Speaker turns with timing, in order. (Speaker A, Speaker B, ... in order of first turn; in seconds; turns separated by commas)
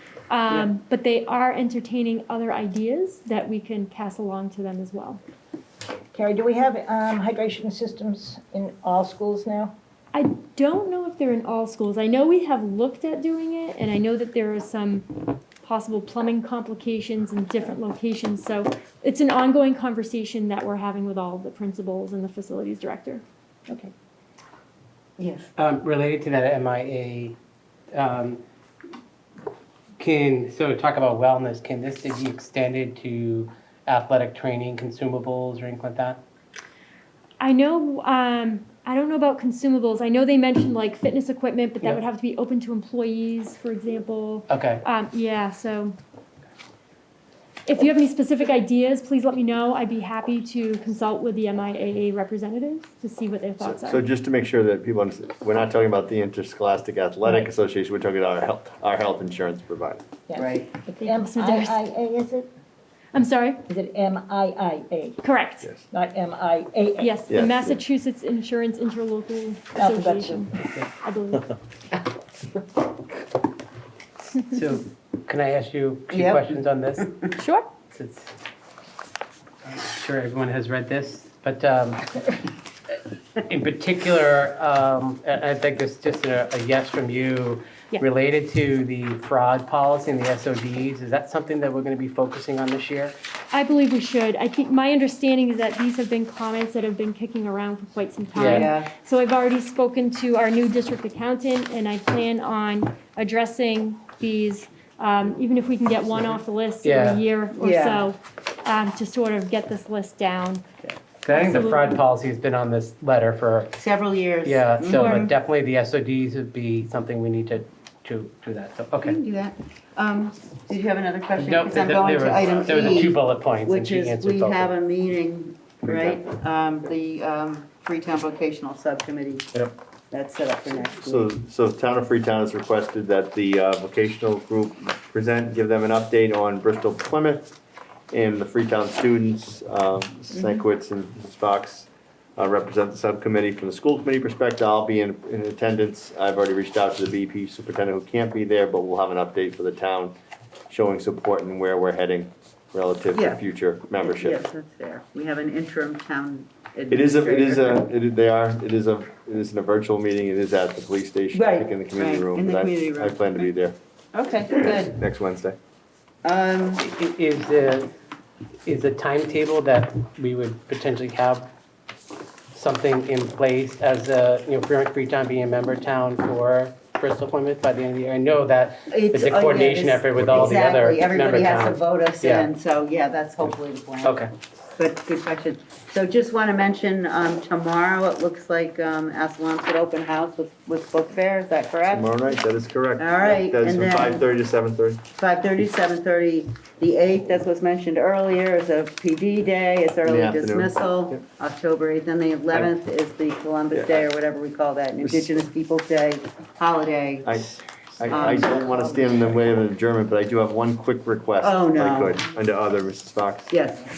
Speaker A: 0.3-5.2, Speaker B: 6.1-9.8, Speaker A: 10.1-23.2, Speaker C: 25.2-25.5, Speaker D: 25.6-27.4, Speaker D: 27.9-28.4, Speaker D: 30.0-36.2, Speaker A: 37.4-46.0, Speaker D: 44.5-44.8, Speaker A: 47.7-54.0, Speaker E: 53.6-60.2, Speaker B: 60.3-62.5, Speaker C: 60.4-60.7, Speaker A: 61.0-61.8, Speaker A: 63.1-63.7, Speaker B: 63.7-65.2, Speaker A: 65.2-65.7, Speaker B: 65.9-67.2, Speaker A: 67.0-71.6, Speaker E: 67.2-67.8, Speaker B: 69.8-70.5, Speaker D: 74.4-77.1, Speaker C: 76.1-76.5, Speaker A: 77.4-77.7, Speaker D: 77.9-78.3, Speaker D: 79.7-82.2, Speaker D: 83.4-93.2, Speaker A: 93.5-110.6, Speaker D: 98.3-98.7, Speaker C: 98.4-98.9, Speaker D: 106.8-107.2, Speaker C: 107.5-108.1, Speaker D: 111.2-113.7, Speaker A: 111.3-112.0, Speaker C: 113.8-115.3, Speaker D: 114.4-119.2, Speaker C: 119.0-131.3, Speaker D: 121.4-124.7, Speaker E: 125.8-126.2, Speaker E: 131.0-137.6, Speaker E: 138.1-150.2, Speaker C: 140.3-140.6, Speaker E: 150.7-154.4, Speaker C: 153.1-153.4, Speaker C: 154.0-157.8, Speaker E: 156.9-163.8, Speaker C: 161.3-163.4, Speaker C: 164.1-165.0, Speaker E: 164.6-165.6, Speaker C: 166.2-166.8, Speaker D: 166.8-167.9, Speaker D: 168.7-171.5, Speaker D: 172.5-182.5, Speaker C: 178.9-184.2, Speaker D: 184.0-184.3, Speaker C: 184.8-192.1, Speaker E: 191.9-195.1, Speaker C: 193.0-194.2, Speaker C: 195.2-207.4, Speaker E: 200.0-201.2, Speaker E: 203.7-204.1, Speaker E: 208.0-213.5, Speaker C: 208.0-209.4, Speaker C: 211.4-212.2, Speaker C: 213.5-213.9